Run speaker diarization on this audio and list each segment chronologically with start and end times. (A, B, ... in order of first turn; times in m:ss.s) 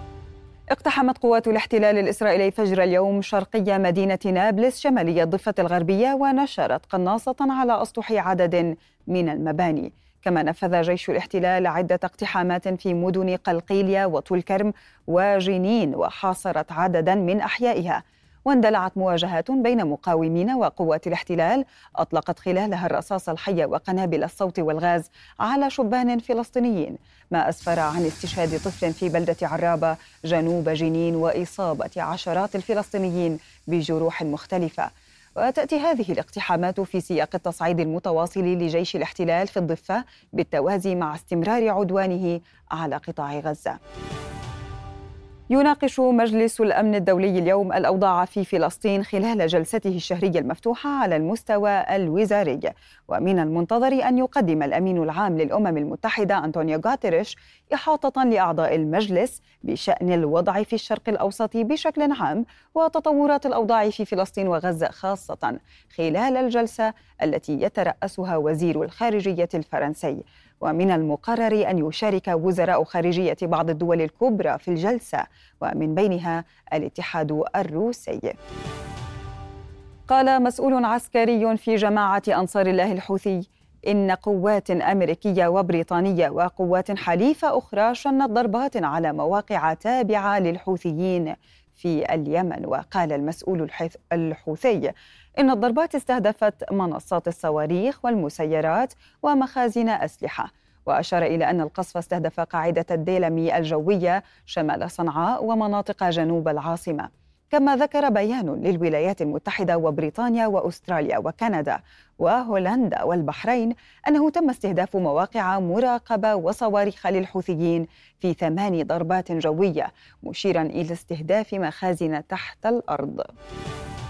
0:00.7-0:43.8 A
0:45.5-1:18.4 A
1:20.1-2:03.3 A